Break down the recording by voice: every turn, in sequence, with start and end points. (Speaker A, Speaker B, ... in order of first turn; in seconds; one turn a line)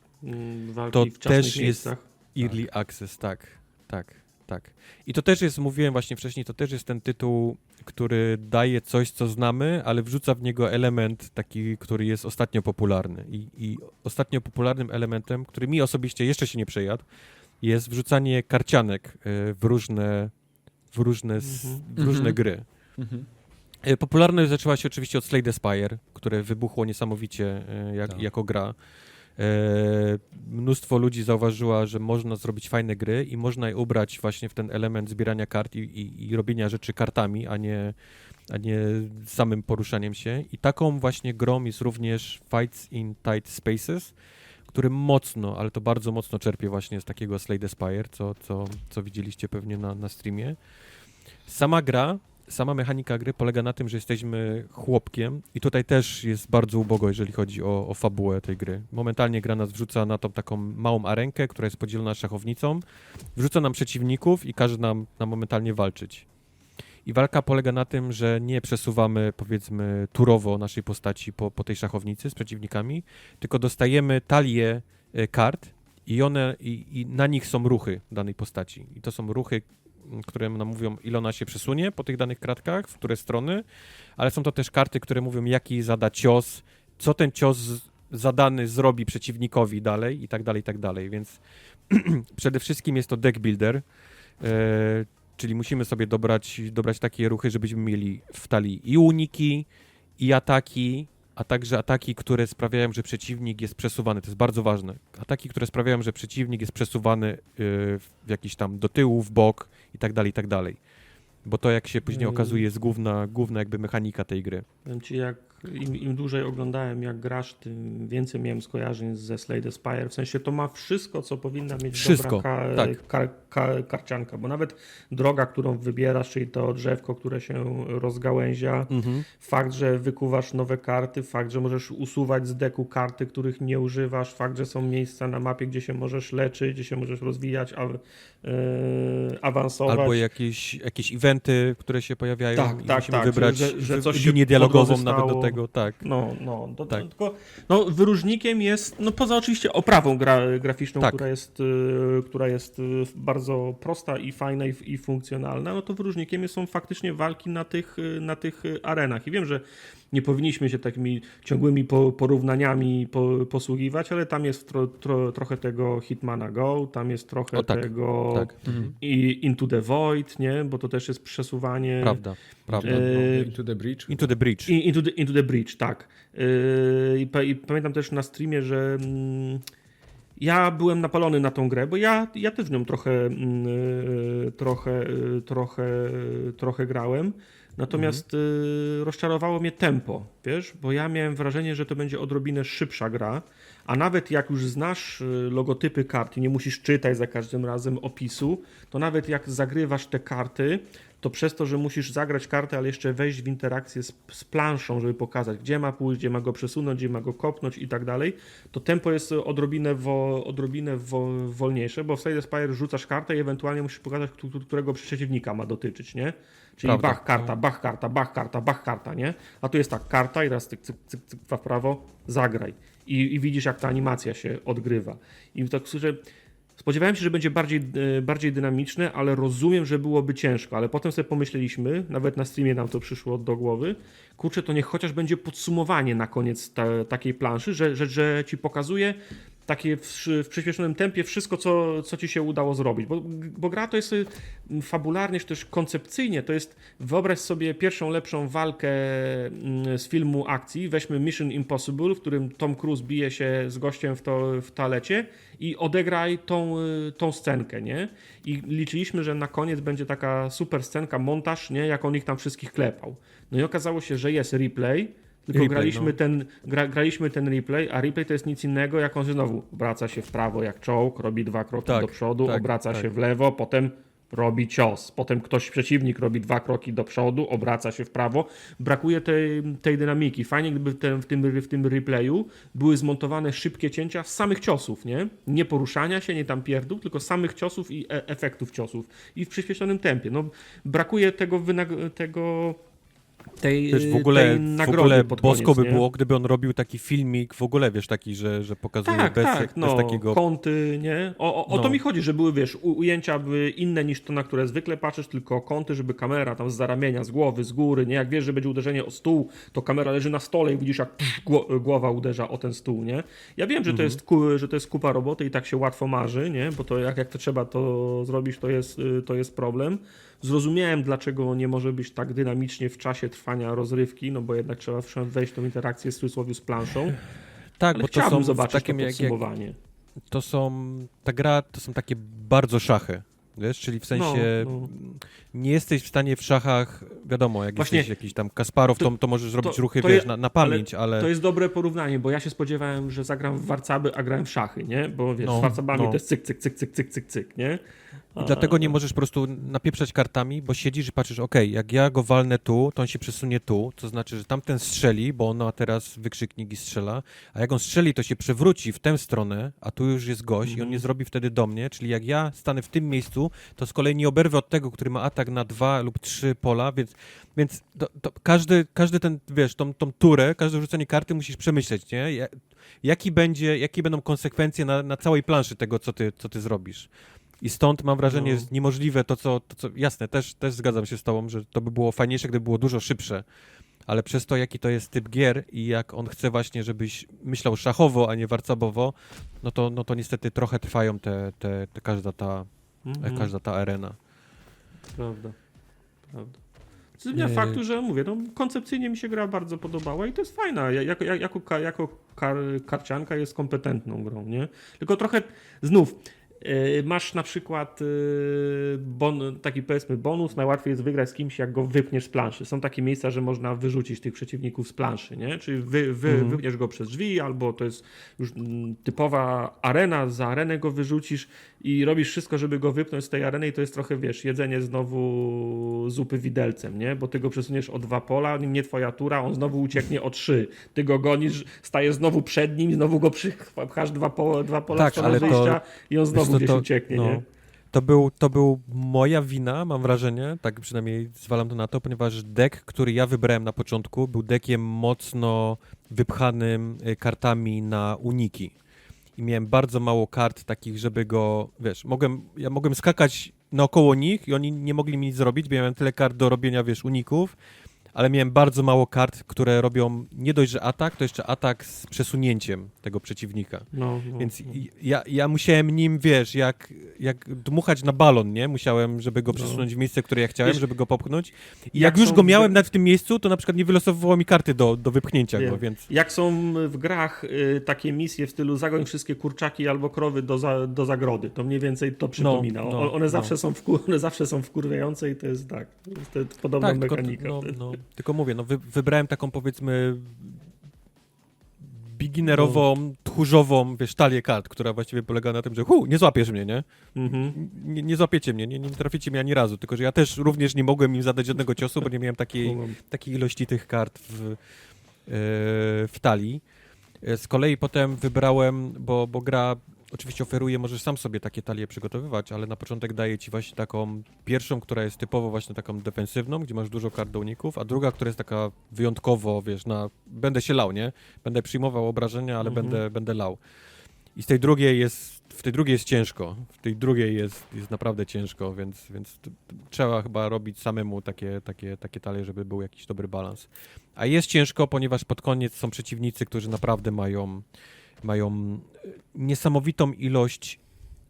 Speaker A: 0.2-2.1
Speaker B: 0.9-17.0
Speaker C: 2.4-2.7
Speaker B: 17.6-20.3
Speaker B: 20.9-22.7
Speaker A: 21.4-21.8
Speaker C: 22.0-23.3
Speaker B: 23.8-28.8
Speaker B: 29.4-38.0
Speaker B: 38.5-44.1
Speaker B: 44.7-50.6
Speaker B: 51.5-62.8
Speaker B: 63.4-66.3
Speaker B: 67.1-83.6
Speaker B: 84.2-93.8
Speaker B: 94.4-99.7
Speaker B: 100.2-110.8
Speaker B: 111.4-114.7
Speaker A: 112.1-112.7
Speaker A: 114.8-140.3
Speaker B: 121.9-123.0
Speaker B: 128.9-129.3
Speaker B: 139.9-146.1
Speaker A: 142.5-172.2
Speaker B: 167.5-168.9
Speaker C: 168.7-168.9
Speaker B: 172.0-173.2
Speaker C: 172.7-174.4
Speaker A: 172.8-173.5
Speaker B: 174.1-174.7
Speaker A: 174.7-179.6
Speaker A: 180.4-226.2
Speaker B: 187.9-188.2
Speaker B: 216.8-217.5
Speaker A: 226.8-292.8
Speaker B: 265.5-266.2
Speaker B: 271.9-273.1
Speaker A: 293.6-296.1
Speaker B: 293.9-300.4
Speaker A: 299.1-327.2
Speaker B: 301.7-302.0
Speaker B: 313.9-314.2
Speaker B: 327.8-329.4
Speaker A: 327.9-329.8
Speaker B: 330.3-341.3
Speaker A: 334.1-334.9
Speaker A: 337.8-338.1
Speaker A: 339.0-347.8
Speaker B: 345.4-346.2
Speaker A: 348.3-349.0
Speaker B: 348.4-383.4
Speaker A: 360.6-361.1
Speaker A: 378.3-378.7
Speaker B: 384.1-392.7
Speaker A: 393.1-393.5
Speaker B: 393.2-394.2
Speaker A: 395.2-395.6
Speaker A: 396.3-396.6
Speaker A: 397.2-437.4
Speaker B: 397.3-397.8
Speaker B: 416.3-416.6
Speaker B: 434.9-435.8
Speaker B: 436.3-448.7
Speaker B: 449.4-457.6
Speaker B: 458.1-476.1
Speaker A: 463.9-464.8
Speaker A: 469.5-469.9
Speaker A: 471.9-472.8
Speaker A: 475.5-487.8
Speaker B: 482.4-483.5
Speaker B: 486.8-490.6
Speaker B: 491.8-504.6
Speaker A: 492.5-492.8
Speaker A: 497.1-497.6
Speaker A: 502.6-503.0
Speaker B: 505.3-506.6
Speaker B: 507.2-523.6
Speaker A: 522.6-523.0
Speaker B: 524.3-537.6
Speaker B: 538.2-540.8